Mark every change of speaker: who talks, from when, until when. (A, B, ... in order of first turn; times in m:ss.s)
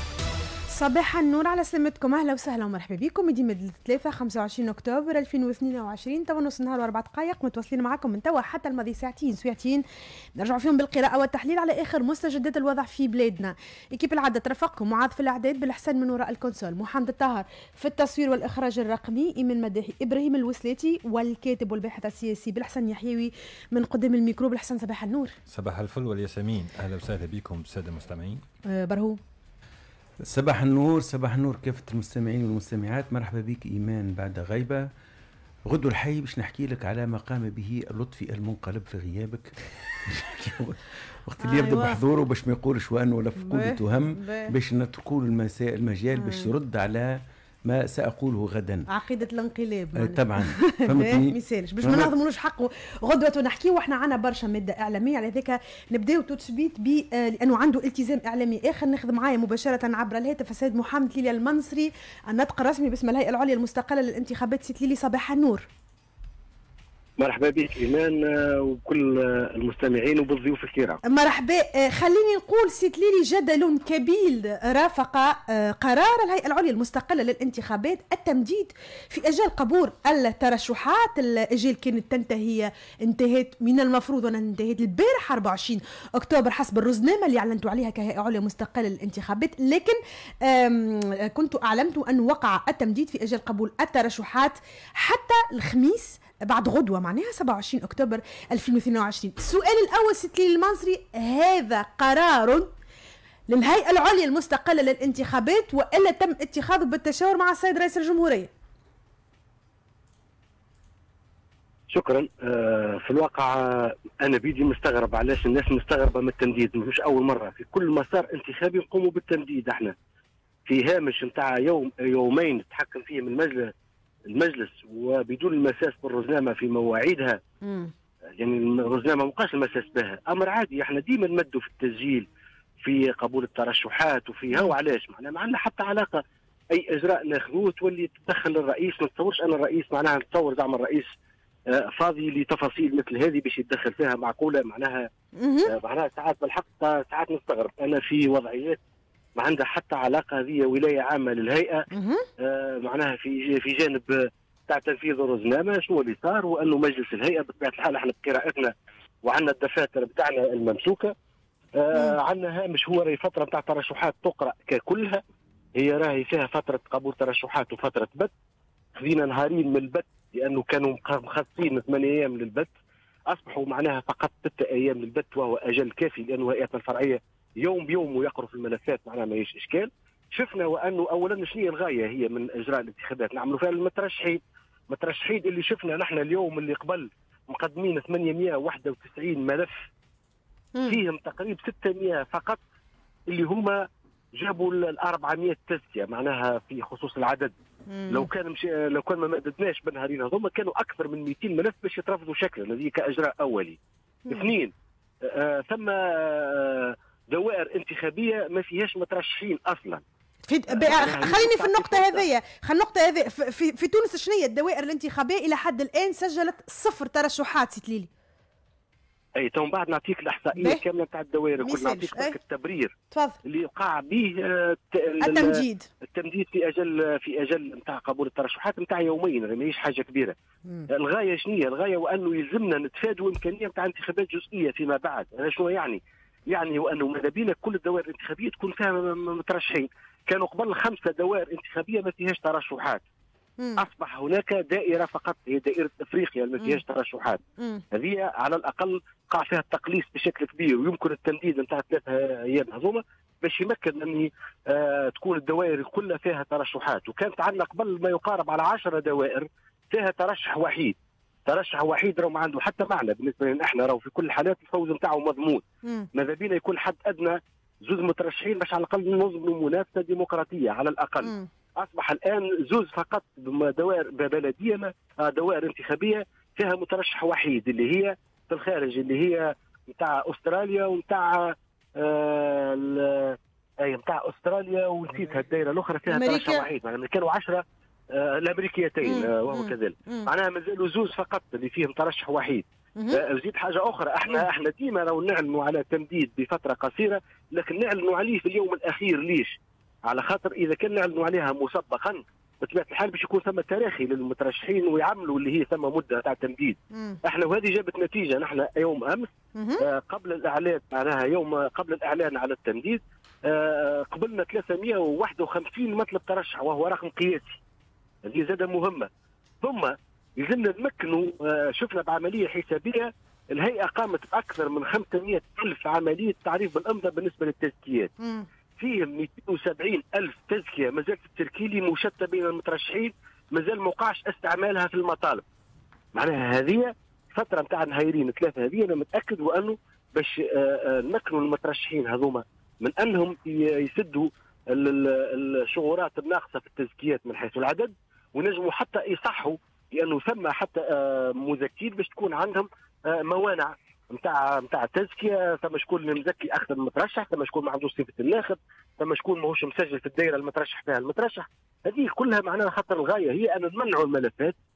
0:00.7-0:09.8 A
0:10.4-0:25.3 A
0:25.5-0:28.4 B
0:28.7-0:29.2 A
0:30.2-0:34.9 C
0:35.7-0:48.9 C
0:41.4-0:42.0 A
0:43.4-0:44.5 A
0:46.1-0:46.5 A
0:48.9-1:05.7 A
0:50.0-0:52.1 C
1:07.2-1:11.0 D
1:11.0-1:42.7 A
1:43.5-1:48.5 A
1:51.9-1:59.9 D
2:00.6-2:03.7 D
2:04.3-2:07.4 D
2:07.6-2:07.9 A
2:08.4-2:12.2 D
2:12.8-2:21.1 D
2:21.7-2:25.1 D
2:25.4-2:25.7 A
2:25.7-2:28.8 D
2:29.4-2:31.9 D
2:31.9-2:32.2 A
2:32.4-2:38.7 D
2:39.2-2:41.1 D
2:41.8-2:45.2 D
2:45.8-2:48.3 D
2:49.0-2:52.7 D
2:53.3-3:09.8 D
3:10.9-3:12.6 D
3:13.3-3:17.5 D
3:17.9-3:18.3 A
3:18.1-3:23.8 D
3:24.3-3:30.0 D
3:30.5-3:38.1 A
3:30.7-3:32.2 D
3:39.4-3:42.9 D
3:40.6-3:40.8 A
3:41.6-3:42.3 A
3:43.4-3:50.3 D
3:45.2-3:45.9 A
3:50.9-4:03.0 D
4:03.8-4:07.4 D
4:07.9-4:20.9 D
4:21.5-4:25.6 D
4:26.1-5:17.6 D
4:31.2-4:31.5 A
4:46.1-4:46.6 A
4:49.0-4:50.3 A
5:06.9-5:07.2 A
5:09.6-5:09.8 A
5:18.2-5:19.1 D
5:19.6-5:28.1 D
5:28.2-5:28.4 A
5:28.8-5:35.4 D
5:36.1-6:04.5 D